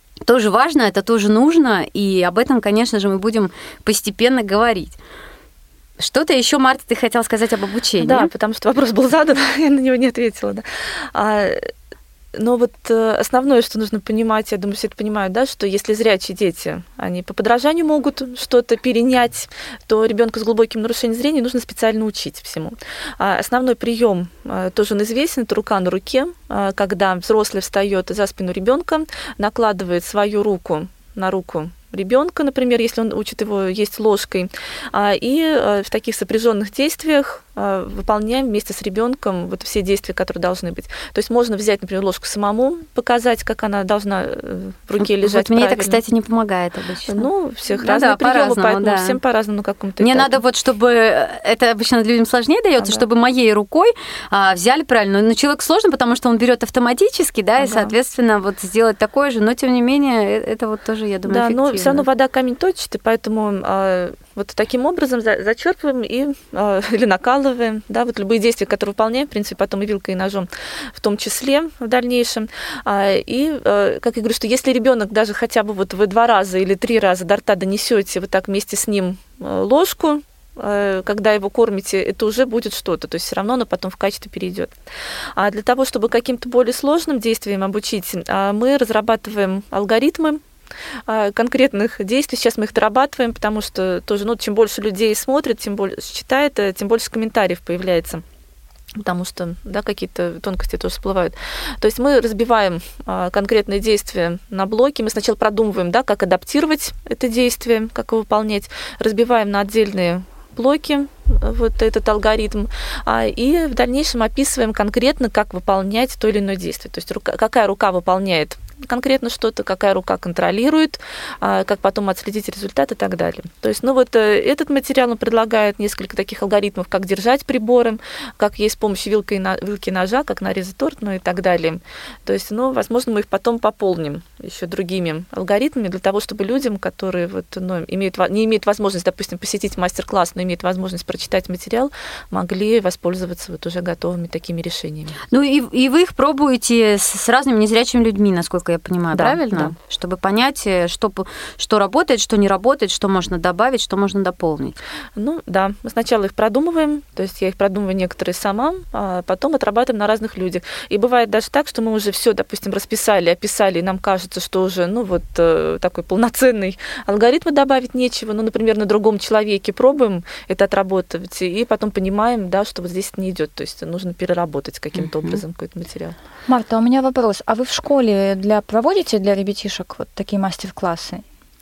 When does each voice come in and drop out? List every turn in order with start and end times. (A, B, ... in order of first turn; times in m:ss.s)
0:00.2-0:05.0 A
0:06.0-0:08.3 A
0:08.0-0:11.7 B
0:12.4-0:46.0 B
0:45.0-0:49.2 A
0:47.1-0:50.4 B
0:50.0-1:02.0 A
0:57.6-0:57.9 B
1:01.3-1:24.7 B
1:25.4-1:30.4 B
1:31.1-1:38.2 B
1:39.0-2:25.2 B
2:25.3-2:34.8 A
2:29.2-2:29.6 C
2:35.2-2:56.2 B
2:56.4-3:01.2 C